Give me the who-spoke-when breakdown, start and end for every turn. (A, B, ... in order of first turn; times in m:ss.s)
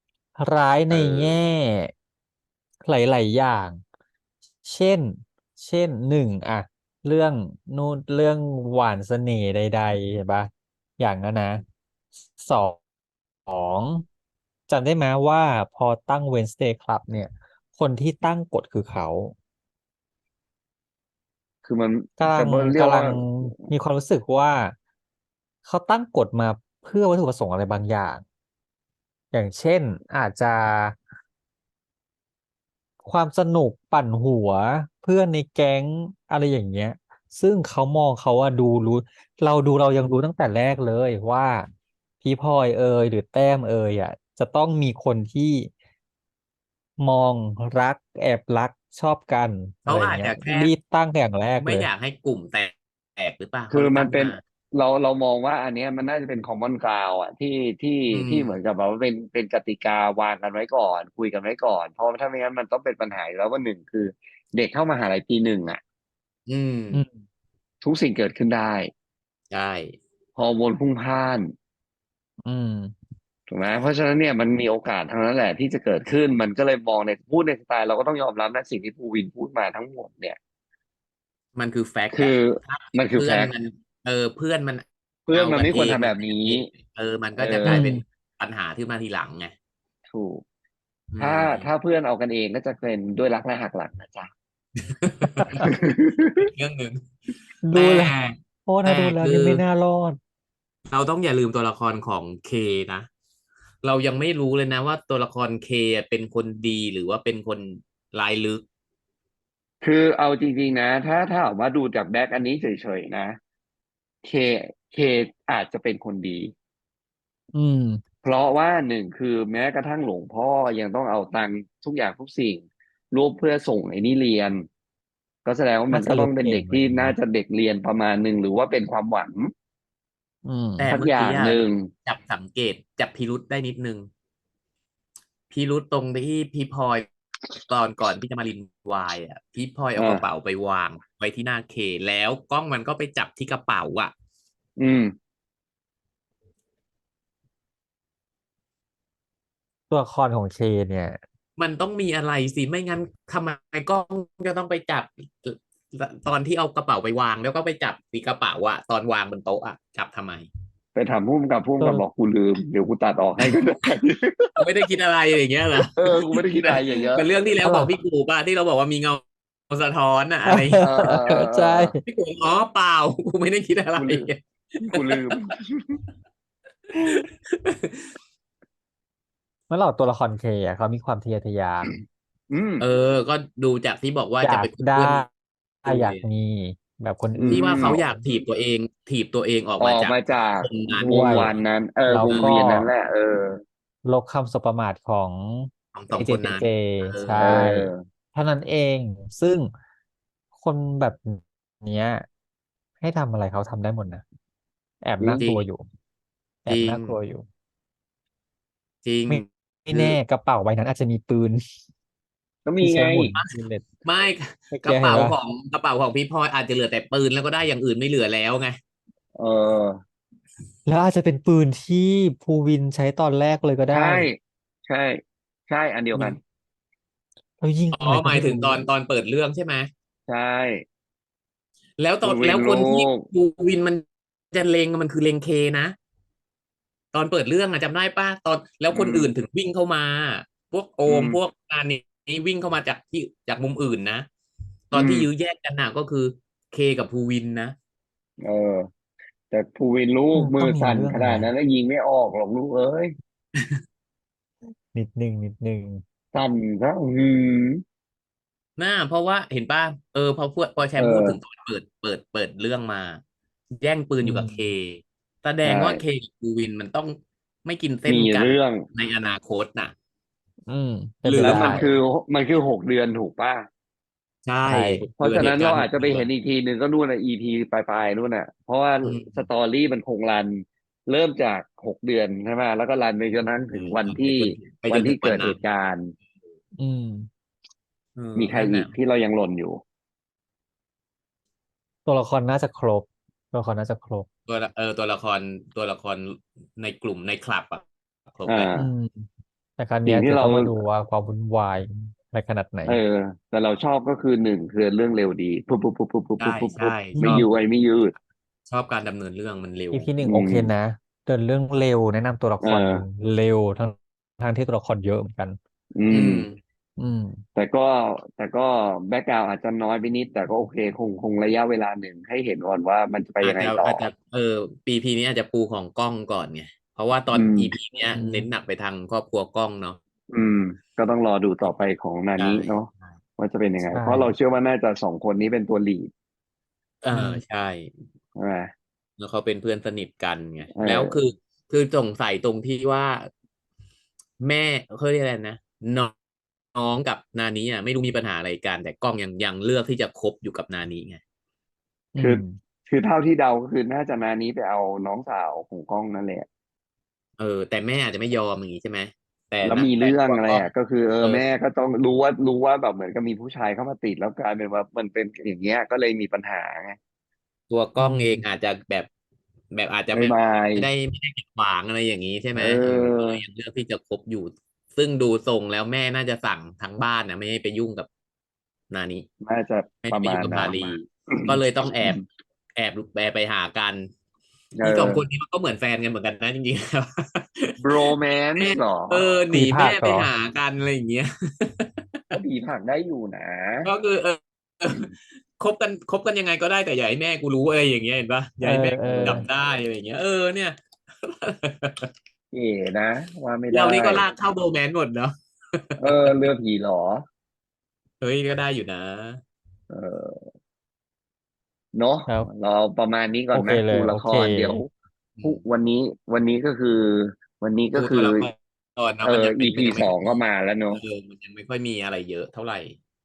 0:00.4-0:01.9 A
0:00.9-0:01.4 B
0:02.8-0:03.8 A
0:04.6-0:11.6 A
0:12.2-0:12.8 A
0:13.4-0:14.0 A
0:14.7-0:19.3 A
0:21.6-0:23.6 B
0:22.2-0:24.8 A
0:25.6-0:28.2 A
0:29.3-0:31.0 A
0:33.0-0:41.7 A
0:42.2-0:45.7 A
0:47.0-0:51.9 A
0:49.8-0:50.7 C
0:51.6-0:54.4 C
0:53.7-1:05.8 B
0:58.1-0:58.6 C
1:06.5-1:07.0 C
1:06.9-1:07.2 A
1:07.8-1:08.9 B
1:09.5-1:10.0 C
1:10.4-1:11.5 B
1:12.4-1:12.9 A
1:13.5-1:20.4 B
1:21.6-1:29.5 C
1:22.1-1:23.5 B
1:25.3-1:26.7 B
1:27.4-1:27.8 B
1:27.6-1:28.0 A
1:30.1-1:30.4 B
1:31.1-1:31.7 C
1:31.2-1:34.3 B
1:34.8-1:35.8 C
1:35.4-1:35.7 A
1:35.6-1:36.5 B
1:36.4-1:37.1 C
1:37.6-1:38.1 A
1:37.7-1:39.6 C
1:38.6-1:40.2 A
1:40.9-1:43.1 C
1:43.8-1:48.6 C
1:49.8-1:53.4 B
1:54.2-1:56.5 B
1:57.5-1:58.0 A
1:58.2-2:04.6 B
2:05.4-2:09.5 B
2:05.9-2:07.1 A
2:10.4-2:10.9 A
2:10.8-2:14.1 C
2:10.9-2:11.9 B
2:15.5-2:17.1 C
2:17.7-2:24.1 C
2:20.0-2:20.2 B
2:24.8-2:25.1 B
2:29.9-2:31.2 A
2:31.6-2:40.5 C
2:40.9-2:44.6 B
2:44.6-2:50.8 C
2:46.0-2:47.3 B
2:47.6-2:47.9 A
2:50.5-2:52.0 A
2:50.8-2:51.9 B
2:52.0-2:55.3 C
2:54.0-2:54.3 B
2:54.9-2:56.0 B
2:56.9-2:58.1 C
2:59.7-3:01.9 A
3:02.5-3:02.8 B
3:02.8-3:05.2 C
3:04.4-3:05.3 A
3:05.8-3:06.2 C
3:05.8-3:08.0 A
3:07.4-3:08.0 B
3:07.5-3:11.6 C
3:09.8-3:13.6 B
3:11.0-3:11.5 A
3:12.1-3:12.9 A
3:12.3-3:12.6 C
3:14.0-3:19.7 A
3:15.9-3:17.6 C
3:17.4-3:18.0 B
3:20.6-3:22.2 A
3:23.0-3:24.2 A
3:25.0-3:25.8 A
3:25.2-3:25.4 B
3:25.4-3:25.6 C
3:26.6-3:27.4 A
3:26.7-3:27.2 C
3:29.0-3:30.1 C
3:29.3-3:31.6 A
3:32.6-3:33.3 B
3:32.8-3:33.8 A
3:33.3-3:38.8 C
3:34.7-3:35.3 A
3:39.4-3:40.0 B
3:40.8-3:44.2 A
3:43.9-3:46.4 B
3:47.6-3:48.8 A
3:47.9-3:49.9 C
3:50.3-3:50.8 B
3:52.0-3:55.9 C
3:52.2-3:53.2 B
3:57.1-4:04.3 C
3:58.9-3:59.3 B
4:01.1-4:01.4 B
4:04.9-4:07.7 C
4:04.9-4:05.3 B
4:08.4-4:08.9 B
4:09.5-4:13.1 B
4:10.3-4:11.5 A
4:13.6-4:13.8 C
4:14.9-4:16.0 A
4:16.3-4:17.8 B
4:18.8-4:23.2 C
4:21.0-4:21.4 B
4:23.7-4:29.9 C
4:24.2-4:24.6 A
4:25.6-4:26.0 B
4:28.1-4:28.8 B
4:30.7-4:31.8 A
4:31.2-4:32.0 C
4:31.4-4:33.7 B
4:34.4-4:36.3 C
4:34.7-4:35.0 A
4:35.2-4:46.1 B
4:39.0-4:39.5 C
4:43.7-4:45.6 C
4:46.8-4:47.3 A
4:48.2-4:48.9 C
4:48.4-4:49.8 B
4:52.0-4:54.3 A
4:54.5-4:58.7 C
4:58.5-4:58.9 B
4:58.8-5:03.0 A
5:00.0-5:00.7 B
5:02.8-5:08.1 B
5:06.4-5:07.5 C
5:07.1-5:07.5 A
5:08.7-5:10.1 C
5:09.9-5:15.6 A
5:10.2-5:10.7 B
5:12.6-5:13.0 B
5:15.9-5:16.4 B
5:16.1-5:16.6 C
5:17.0-5:17.4 A
5:17.6-5:24.1 B
5:23.4-5:30.0 C
5:27.3-5:27.7 B
5:28.1-5:28.5 A
5:30.3-5:36.1 B
5:32.4-5:33.2 C
5:33.9-5:34.3 A
5:37.0-5:37.9 C
5:37.1-5:37.4 A
5:38.4-5:38.7 B
5:39.2-5:43.3 C
5:40.8-5:41.2 B
5:44.4-5:46.1 C
5:46.7-5:51.2 C
5:52.1-5:52.6 A
5:52.2-5:56.5 B
5:57.4-6:00.7 C
5:59.6-6:07.0 B
6:07.7-6:09.1 C
6:08.0-6:08.4 A
6:09.7-6:18.1 C
6:10.1-6:10.9 B
6:12.5-6:13.4 B
6:18.9-6:19.2 C
6:19.4-6:22.2 B
6:20.0-6:22.2 C
6:22.7-6:24.1 C
6:24.8-6:25.2 B
6:24.8-6:32.4 C
6:27.8-6:29.2 B
6:29.5-6:30.3 A
6:32.3-6:33.9 B
6:33.8-6:42.1 C
6:38.6-6:39.5 A
6:39.0-6:39.4 B
6:42.5-6:44.2 B
6:43.7-6:46.3 C
6:46.0-6:47.2 B
6:48.2-6:49.4 C
6:49.9-6:50.5 B
6:51.9-6:54.9 B
6:53.5-6:54.8 A
6:55.4-6:55.6 C
6:55.4-6:58.5 B
6:57.9-7:00.4 C
6:59.2-7:01.0 B
7:00.9-7:03.0 C